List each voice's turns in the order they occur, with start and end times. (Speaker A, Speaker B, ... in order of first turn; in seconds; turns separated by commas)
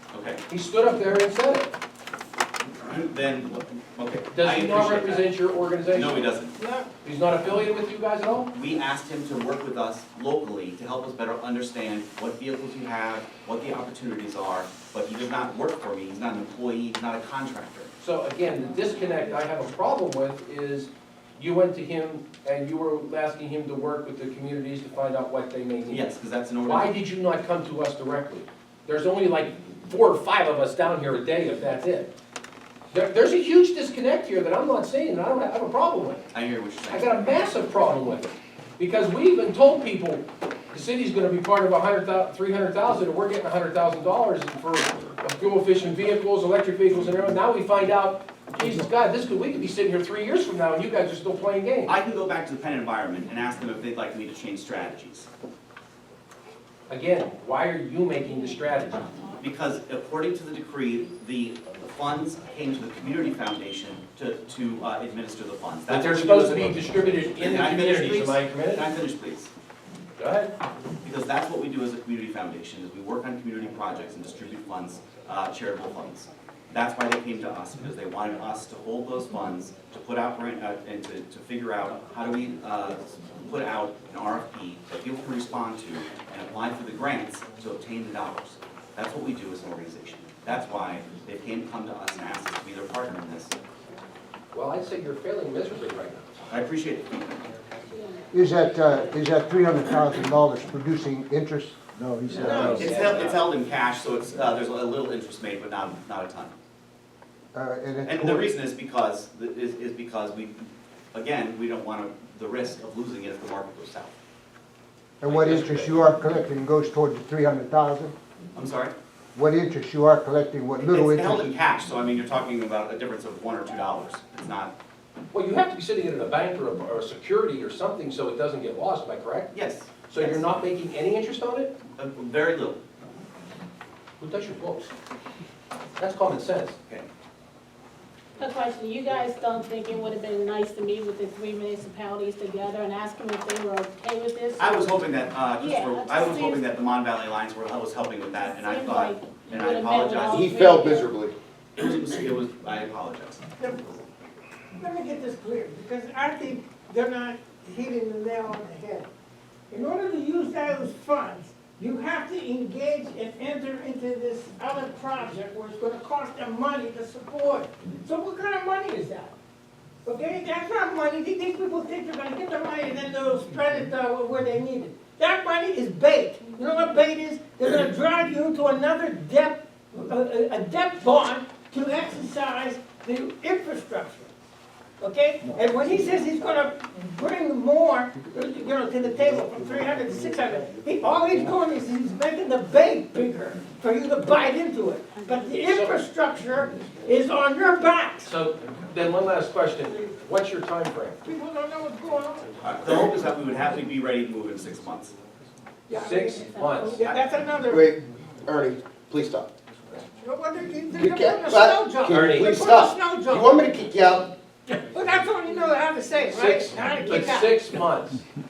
Speaker A: 0.1-0.4, Speaker B: 0.5-1.7, Speaker A: 2.9-5.3, Speaker B: 4.3-6.3, Speaker A: 5.9-6.6, Speaker C: 6.6-6.9, Speaker B: 7.0-8.5, Speaker A: 8.5-17.9, Speaker B: 18.0-26.1, Speaker A: 25.9-26.9, Speaker B: 26.6-32.1, Speaker B: 32.9-36.2, Speaker A: 36.3-37.1, Speaker B: 36.9-51.9, Speaker A: 51.9-55.3, Speaker B: 56.9-59.2, Speaker A: 59.4-69.5, Speaker B: 65.9-68.9, Speaker B: 70.2-70.5, Speaker A: 71.0-93.5, Speaker B: 94.5-96.5, Speaker A: 96.5-97.3, Speaker D: 97.9-98.3, Speaker E: 98.3-103.0, Speaker B: 102.4-103.3, Speaker C: 102.4-103.2, Speaker A: 102.5-106.5, Speaker E: 107.5-108.5, Speaker A: 108.0-114.1, Speaker E: 115.2-118.1, Speaker A: 115.2-116.1, Speaker A: 118.5-118.9, Speaker E: 119.3-121.5, Speaker A: 120.8-124.7, Speaker B: 125.3-129.5, Speaker A: 129.5-130.5, Speaker B: 130.1-131.8, Speaker A: 132.0-132.8, Speaker B: 134.2-134.9, Speaker B: 136.0-136.8, Speaker D: 138.4-145.0, Speaker A: 144.6-150.5, Speaker D: 145.6-146.7, Speaker D: 148.4-151.1, Speaker F: 150.3-151.3, Speaker A: 151.8-154.0, Speaker C: 154.8-159.1, Speaker C: 159.7-169.3, Speaker C: 170.0-184.3, Speaker C: 185.0-198.3, Speaker D: 195.1-195.5, Speaker B: 195.7-196.0, Speaker B: 198.2-201.2, Speaker C: 201.2-203.1, Speaker A: 202.6-205.1, Speaker C: 205.9-207.9, Speaker B: 205.9-207.1, Speaker D: 206.0-206.8, Speaker F: 207.7-209.5, Speaker C: 210.2-213.8, Speaker F: 210.9-214.3, Speaker B: 212.1-212.6, Speaker C: 214.9-217.7, Speaker B: 216.3-218.2